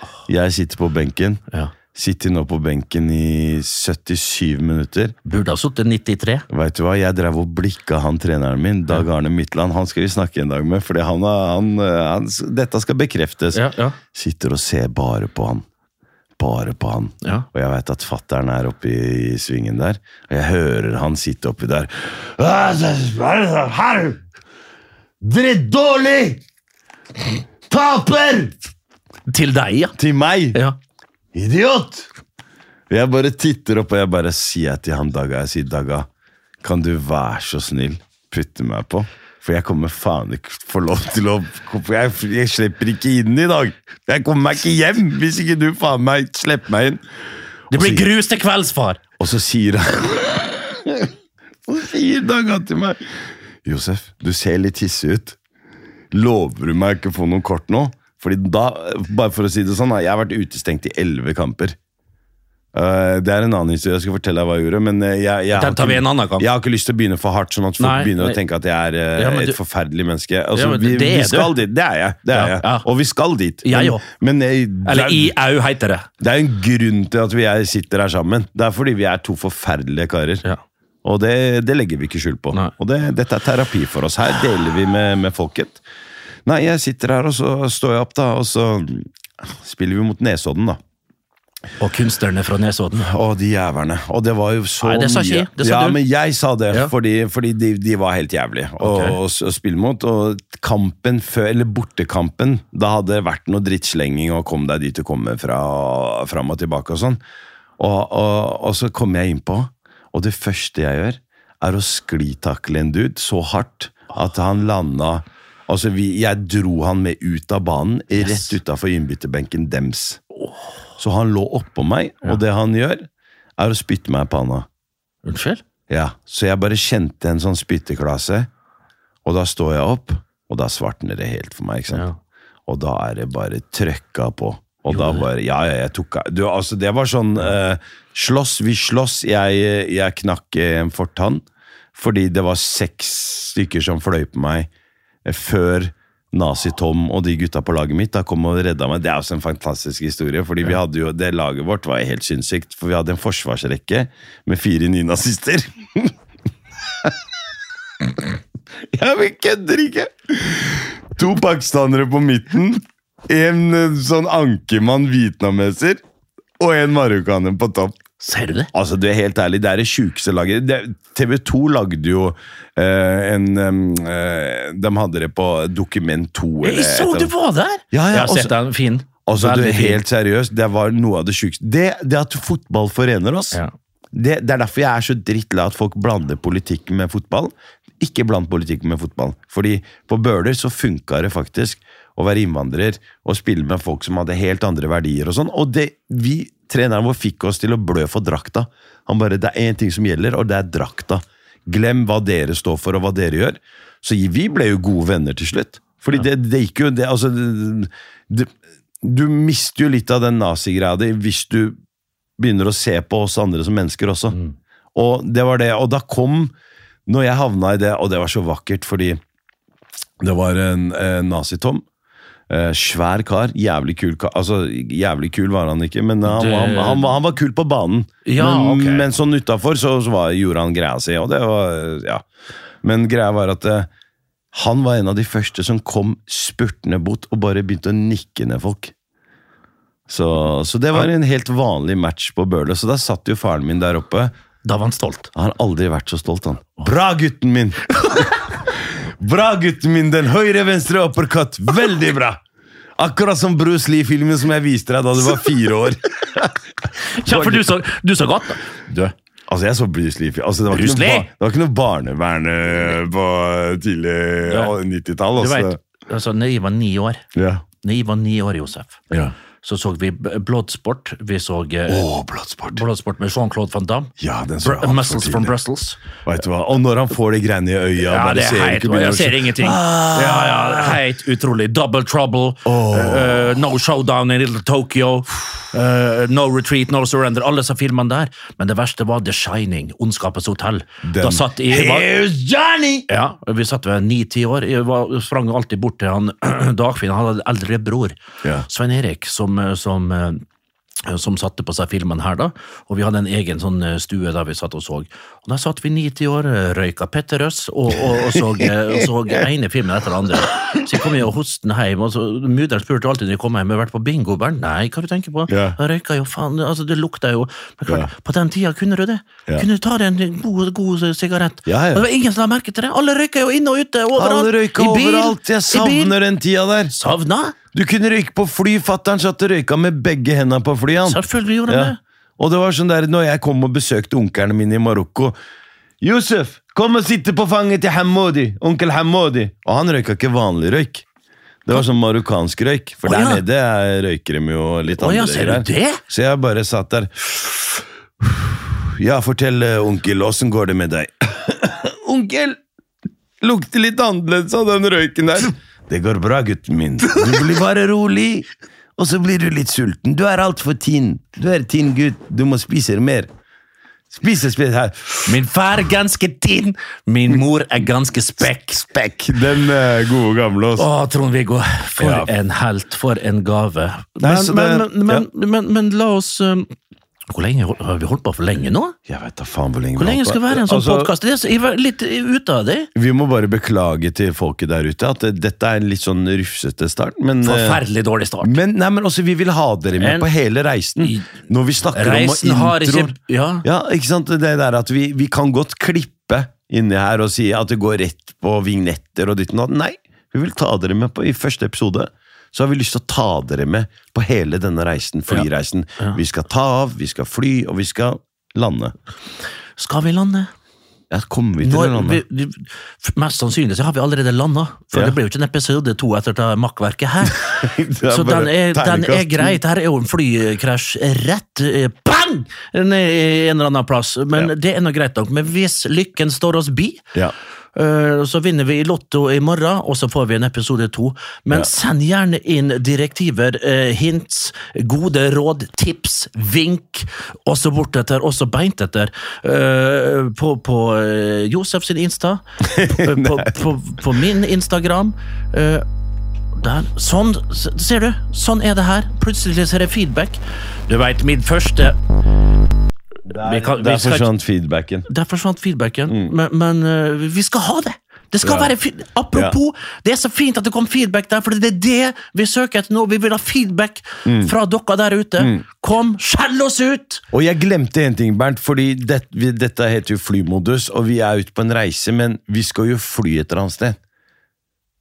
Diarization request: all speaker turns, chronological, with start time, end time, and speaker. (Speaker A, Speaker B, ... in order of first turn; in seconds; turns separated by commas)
Speaker A: 0.3-1.4, Speaker A: 1.9-5.1, Speaker B: 5.2-6.4, Speaker A: 6.5-15.6, Speaker B: 13.5-14.0, Speaker A: 16.4-24.2, Speaker A: 25.2-26.4, Speaker A: 27.7-28.6, Speaker B: 29.3-29.9, Speaker A: 29.9-30.6, Speaker A: 31.3-32.1, Speaker A: 32.9-36.1, Speaker A: 36.6-47.0, Speaker A: 47.7-48.1, Speaker B: 47.7-49.0, Speaker A: 49.2-51.1, Speaker A: 51.7-53.0, Speaker A: 53.6-55.4, Speaker A: 56.1-61.8, Speaker A: 62.7-75.3, Speaker B: 65.5-66.5, Speaker B: 67.8-68.4, Speaker B: 69.2-69.6, Speaker B: 70.5-71.5, Speaker B: 72.3-72.8, Speaker B: 73.6-74.0, Speaker B: 74.8-76.1, Speaker A: 76.2-80.4, Speaker A: 81.0-85.8, Speaker A: 86.5-90.8, Speaker B: 91.8-93.1, Speaker A: 93.0-107.2, Speaker B: 94.8-96.0, Speaker B: 98.8-99.2, Speaker A: 107.8-120.2, Speaker B: 118.2-118.5, Speaker A: 121.0-124.7, Speaker B: 125.2-125.6, Speaker A: 125.9-128.5, Speaker A: 129.2-132.1, Speaker B: 131.9-132.2, Speaker A: 132.7-141.4, Speaker B: 134.9-135.2, Speaker A: 141.9-144.7, Speaker A: 145.2-156.1, Speaker A: 158.0-158.3, Speaker A: 158.9-166.0, Speaker A: 166.6-168.0, Speaker B: 168.2-168.7, Speaker A: 168.7-177.3, Speaker B: 176.6-180.0, Speaker A: 177.9-178.5, Speaker A: 179.2-183.6, Speaker A: 184.1-208.5, Speaker A: 209.0-211.8, Speaker A: 212.4-214.4, Speaker A: 214.9-216.5, Speaker A: 217.1-219.2, Speaker A: 220.2-221.8, Speaker A: 222.5-232.2, Speaker B: 226.2-227.1, Speaker B: 228.2-229.1, Speaker A: 232.8-233.9, Speaker A: 234.5-238.9, Speaker A: 240.1-244.3, Speaker B: 244.6-245.3, Speaker A: 245.3-247.9, Speaker A: 248.7-252.4, Speaker A: 253.0-256.6, Speaker B: 257.0-259.1, Speaker A: 257.2-257.7, Speaker A: 259.5-265.8, Speaker B: 260.7-261.3, Speaker B: 264.5-264.7, Speaker B: 265.4-267.2, Speaker A: 267.3-267.6, Speaker B: 267.8-269.0, Speaker B: 269.6-272.1, Speaker A: 271.9-272.8, Speaker B: 272.7-276.0, Speaker A: 274.2-275.5, Speaker A: 276.2-281.0, Speaker B: 278.0-292.1, Speaker A: 282.6-283.6, Speaker A: 291.0-293.1, Speaker B: 293.1-300.4, Speaker B: 301.0-326.1, Speaker A: 308.0-309.1, Speaker A: 310.5-310.8, Speaker A: 315.5-315.8, Speaker A: 321.6-322.0, Speaker A: 324.1-326.9, Speaker B: 326.9-327.6, Speaker A: 327.7-335.4, Speaker B: 331.0-332.0, Speaker A: 336.0-341.0, Speaker A: 341.6-347.6, Speaker B: 343.0-343.4, Speaker B: 344.9-346.0, Speaker A: 348.2-352.6, Speaker A: 353.4-363.3, Speaker A: 364.1-365.3, Speaker B: 365.2-368.8, Speaker A: 368.8-370.9, Speaker B: 370.8-376.7, Speaker A: 372.0-372.3, Speaker A: 374.2-375.2, Speaker B: 377.3-378.9, Speaker A: 379.1-381.1, Speaker B: 380.0-382.9, Speaker A: 382.9-387.8, Speaker B: 387.4-388.6, Speaker A: 388.4-408.9, Speaker B: 390.0-390.3, Speaker B: 391.0-391.3, Speaker B: 391.9-393.6, Speaker B: 409.8-410.5, Speaker A: 411.1-412.2, Speaker B: 411.6-427.0, Speaker A: 417.2-419.6, Speaker B: 427.7-445.8, Speaker A: 442.6-443.5, Speaker B: 446.6-452.0, Speaker A: 453.2-455.1, Speaker B: 453.3-454.3, Speaker B: 455.1-467.2, Speaker A: 456.1-456.3, Speaker A: 458.4-458.7, Speaker A: 464.2-464.5, Speaker A: 465.4-465.6, Speaker A: 467.3-474.0